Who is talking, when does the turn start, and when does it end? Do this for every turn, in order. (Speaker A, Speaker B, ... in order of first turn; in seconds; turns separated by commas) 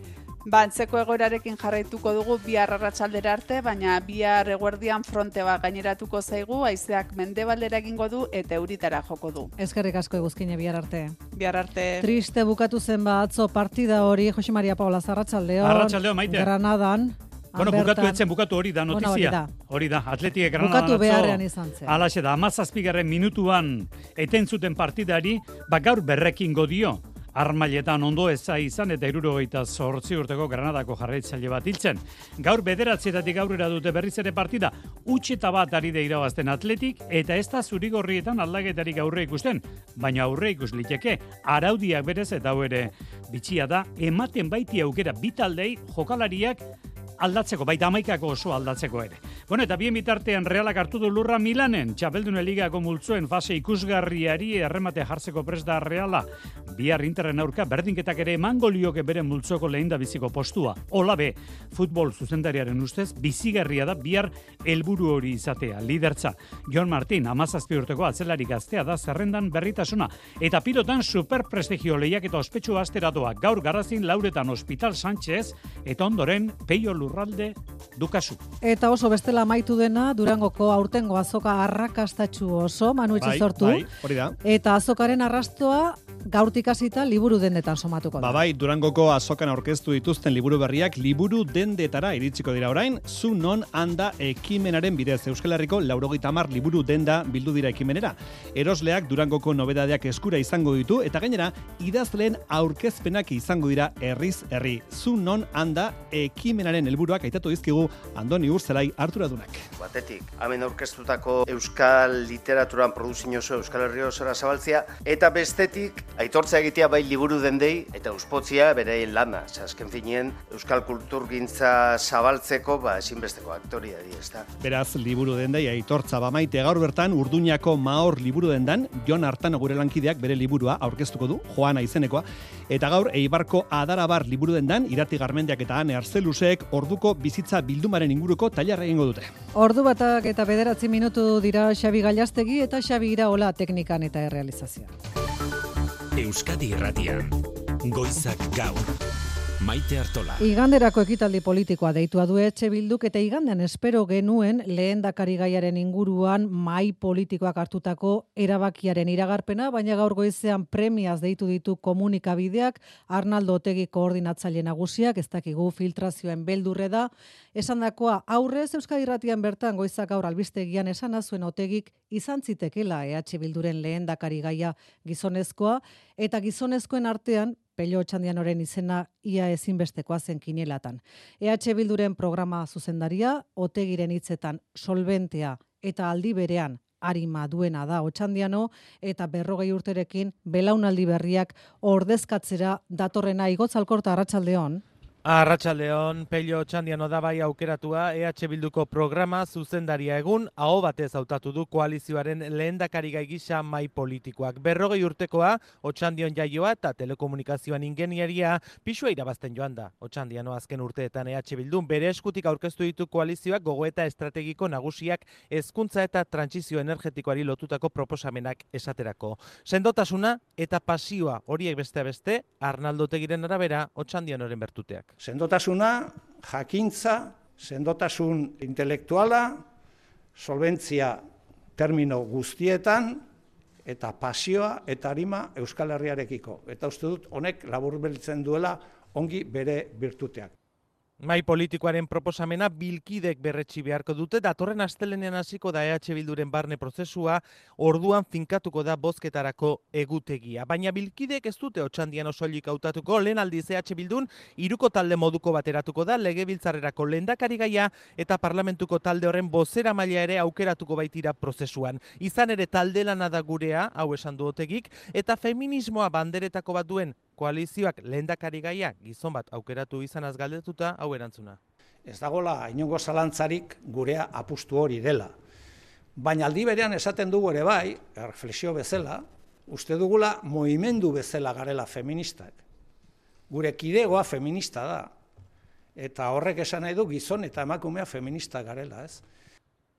Speaker A: 0.5-9.5, Speaker B: 9.6-11.2, Speaker A: 11.3-12.0, Speaker B: 12.0-18.2, Speaker C: 15.6-16.5, Speaker C: 17.6-46.6, Speaker B: 18.9-19.5, Speaker B: 20.6-22.0, Speaker C: 47.2-78.4, Speaker B: 78.6-83.9, Speaker D: 83.2-84.3, Speaker B: 84.4-88.4, Speaker D: 88.2-109.7, Speaker E: 109.8-124.5, Speaker D: 124.6-139.3, Speaker B: 139.5-144.9, Speaker F: 146.2-148.9, Speaker F: 149.6-150.4, Speaker B: 150.4-194.8, Speaker G: 195.2-225.1, Speaker H: 225.2-229.6, Speaker H: 230.3-231.2, Speaker H: 231.8-233.2, Speaker H: 233.8-240.5, Speaker G: 241.2-271.6, Speaker H: 272.0-275.3, Speaker H: 276.1-282.6, Speaker H: 283.5-285.1, Speaker H: 285.9-289.2